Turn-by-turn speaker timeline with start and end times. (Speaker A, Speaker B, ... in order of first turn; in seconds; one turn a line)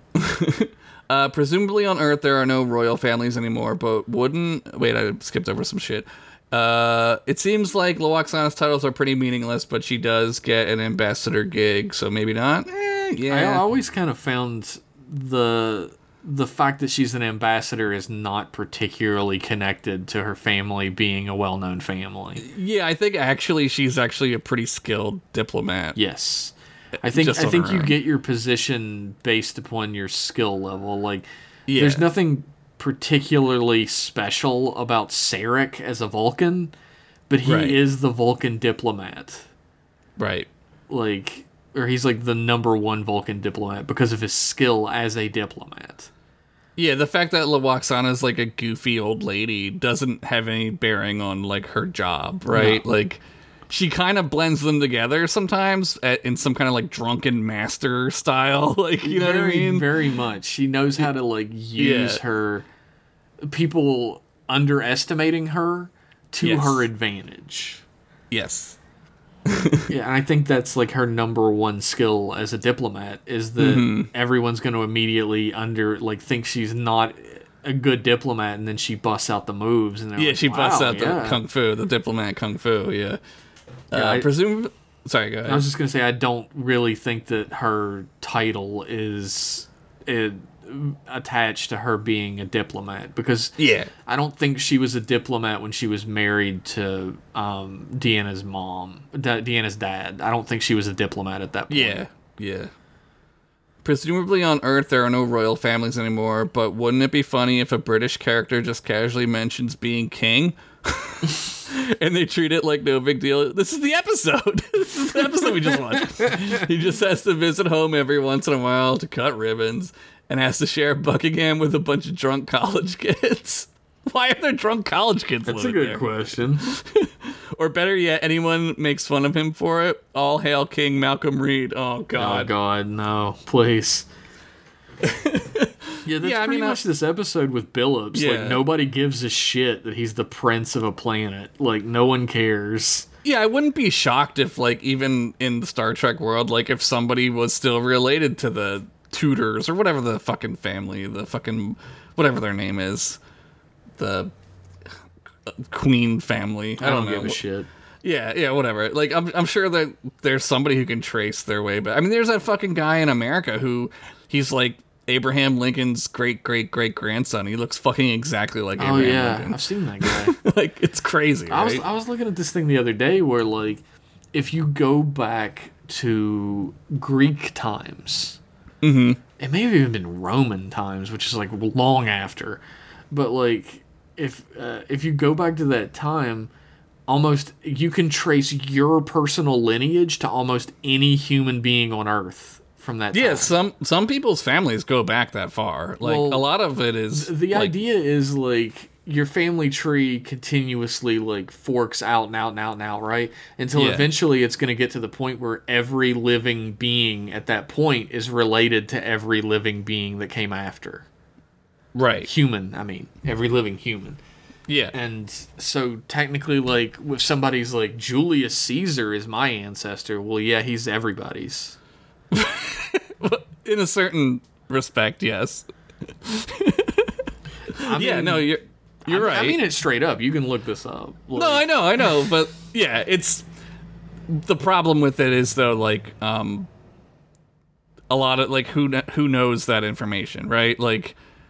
Speaker A: 0.1-13.6
Speaker B: 13.3-22.4
Speaker A: 22.4-26.0
Speaker B: 26.0-36.7
Speaker A: 27.1-27.9
Speaker A: 31.7-32.1
Speaker B: 37.3-39.5
Speaker A: 37.5-37.8
Speaker A: 40.2-40.5
Speaker B: 40.9-46.1
Speaker A: 46.8-59.9
Speaker B: 52.5-52.8
Speaker B: 59.0-62.7
Speaker A: 61.8-62.2
Speaker B: 63.4-67.8
Speaker A: 66.4-66.9
Speaker A: 68.3-68.8
Speaker A: 69.5-69.9
Speaker B: 69.9-81.4
Speaker A: 73.6-74.1
Speaker A: 80.2-83.2
Speaker A: 83.9-85.7
Speaker B: 83.9-84.3
Speaker B: 85.5-102.0
Speaker A: 93.6-93.9
Speaker A: 101.7-102.7
Speaker A: 103.8-132.5
Speaker B: 125.5-126.7
Speaker B: 132.2-134.1
Speaker A: 135.0-136.8
Speaker B: 136.0-143.1
Speaker A: 138.1-138.6
Speaker A: 143.2-153.2
Speaker A: 154.0-154.3
Speaker A: 155.5-157.4
Speaker B: 156.8-157.7
Speaker A: 158.0-171.8
Speaker B: 168.8-170.4
Speaker B: 171.5-173.8
Speaker B: 174.3-178.4
Speaker A: 178.8-179.2
Speaker B: 179.4-186.5
Speaker B: 187.1-193.5
Speaker A: 193.1-197.7
Speaker B: 196.0-196.5
Speaker B: 197.1-211.1
Speaker A: 203.7-204.1
Speaker A: 211.9-212.3
Speaker B: 212.2-214.2
Speaker A: 214.7-214.9
Speaker B: 214.9-221.8
Speaker A: 222.3-225.7
Speaker A: 226.2-227.2
Speaker B: 227.8-228.5
Speaker A: 227.8-229.6
Speaker B: 229.1-231.7
Speaker A: 231.3-233.4
Speaker A: 234.3-236.7
Speaker A: 238.1-241.2